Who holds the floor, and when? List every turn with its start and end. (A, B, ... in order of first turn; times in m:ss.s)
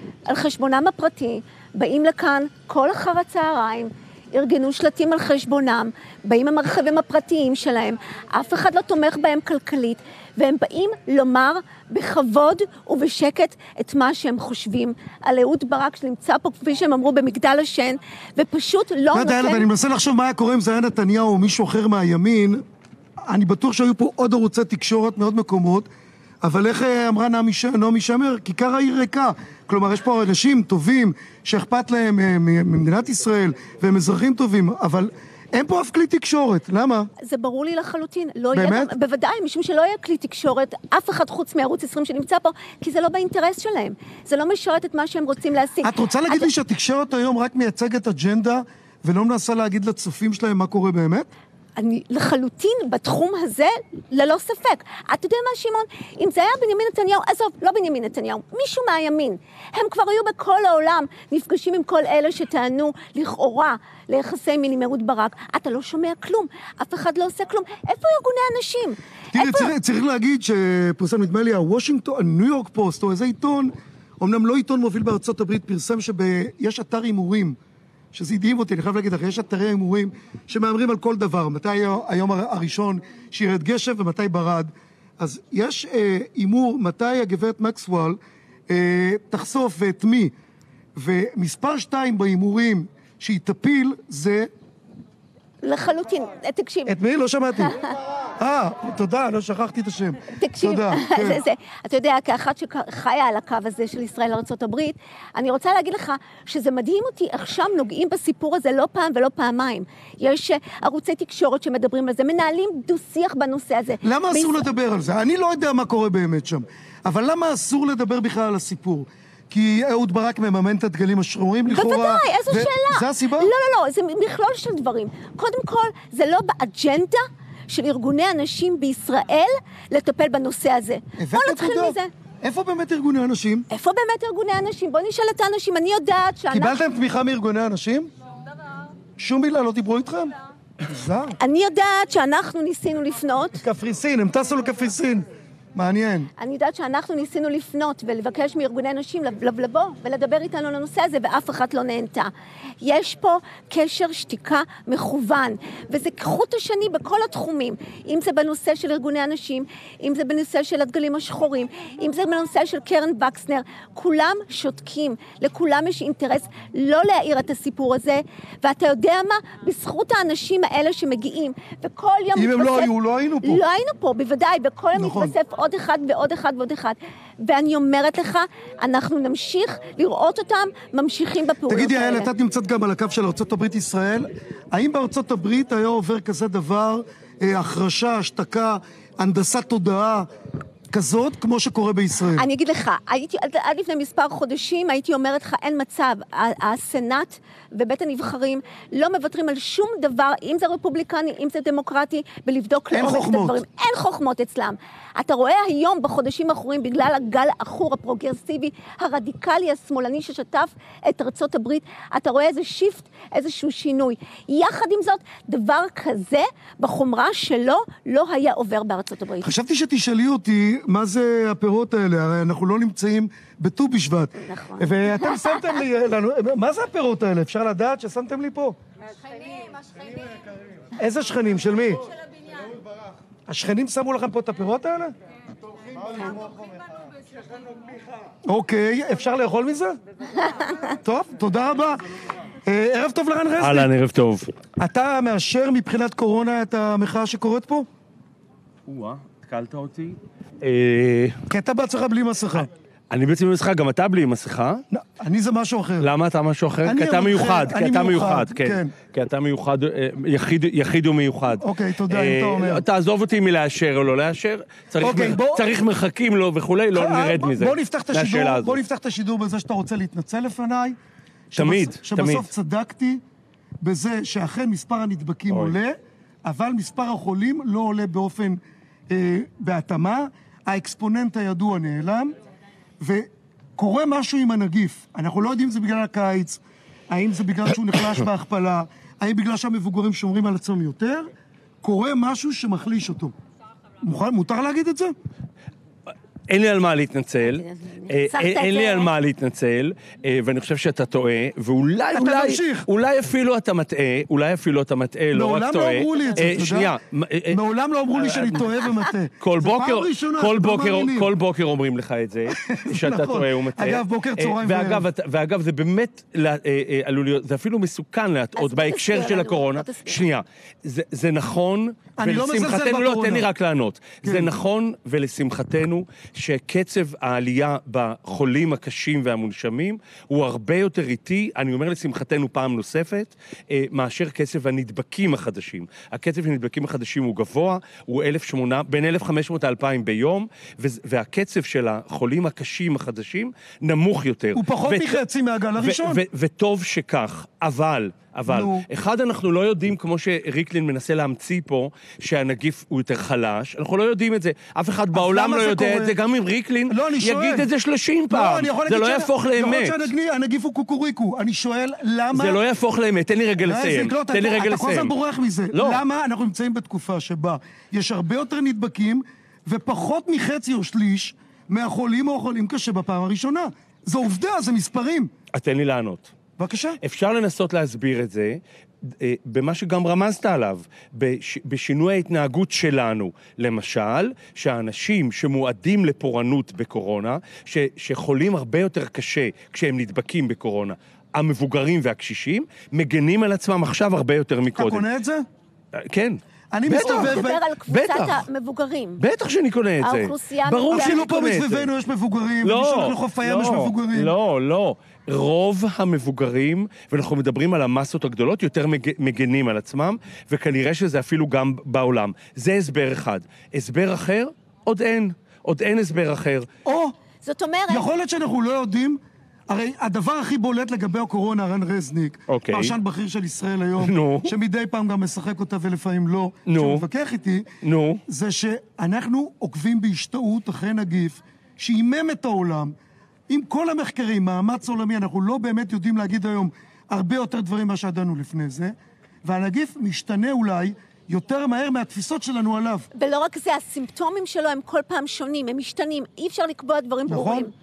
0:00.3-0:19.7 A
0:19.1-0:22.6 B
0:23.3-0:25.9 B
0:26.4-0:37.1 B
0:37.2-0:46.5 A
0:38.5-0:38.9 B
0:45.8-0:51.3 B
0:51.8-1:09.7 A
1:09.3-1:17.6 B
1:18.1-1:30.3 B
1:31.0-1:34.5 B
1:35.6-1:36.9 A
1:36.9-1:37.8 B
1:38.4-1:41.4 B
1:40.4-1:54.6 A
1:54.0-2:03.5 B
2:01.7-2:12.1 A
2:11.2-2:13.6 B
2:13.7-2:16.8 A
2:16.5-2:18.1 B
2:19.2-2:21.4 B
2:21.4-2:23.6 A
2:23.6-2:26.3 B
2:26.4-2:52.9 A
2:52.3-2:53.6 B
2:53.4-3:02.3 A
2:54.9-2:55.3 B
3:01.7-3:10.3 B
3:10.9-3:12.4 B
3:12.4-3:39.5 A
3:22.9-3:23.6 B
3:39.4-3:48.8 B
3:44.4-3:45.5 A
3:51.0-3:52.0 B
3:53.5-3:55.1 B
3:58.4-4:00.0 B
4:01.0-4:02.0 B
4:02.6-4:03.9 B
4:03.6-4:04.5 C
4:04.8-4:07.9 B
4:08.9-4:11.4 C
4:11.5-4:12.7 B
4:13.1-4:14.8 C
4:14.9-4:16.1 B
4:16.0-4:28.8 C
4:16.8-4:18.9 B
4:21.6-4:22.8 B
4:25.0-4:25.7 B
4:26.9-4:31.0 B
4:31.5-4:33.2 B
4:31.5-4:32.5 C
4:33.8-4:42.3 B
4:35.5-4:35.7 C
4:43.0-4:51.3 B
4:51.8-4:53.3 B
4:54.0-4:55.1 B
4:56.5-5:07.6 C
4:57.4-4:59.1 A
5:02.1-5:02.8 B
5:05.3-5:06.9 B
5:07.5-5:11.3 B
5:08.1-5:08.8 C
5:09.4-5:45.2 C
5:12.6-5:15.0 B
5:18.6-5:20.2 A
5:22.2-5:23.5 B
5:24.2-5:24.5 B
5:44.5-5:46.2 B
5:45.8-6:00.1 C
5:48.5-5:48.8 B
5:55.1-5:56.1 B
5:56.9-5:57.7 B
5:58.3-6:02.6 B
6:02.3-6:05.1 C
6:03.6-6:15.3 B
6:05.7-6:06.0 C
6:15.5-6:16.3 C
6:16.6-6:17.0 B
6:17.0-6:35.1 C
6:34.7-6:35.4 B
6:36.0-6:38.4 C
6:36.7-6:37.6 B
6:36.9-6:39.2 A
6:39.2-6:41.9 C
6:40.0-6:41.3 A
6:40.9-6:44.3 B
6:42.6-6:56.7 C
6:56.8-6:57.1 B
6:57.4-6:58.1 A
6:57.9-7:07.6 B
7:02.5-7:02.9 C
7:04.0-7:04.5 C
7:06.7-7:07.0 C
7:07.8-7:08.2 C
7:08.3-7:12.9 B
7:13.5-7:23.1 B
7:23.1-7:27.7 A
7:27.3-7:27.7 B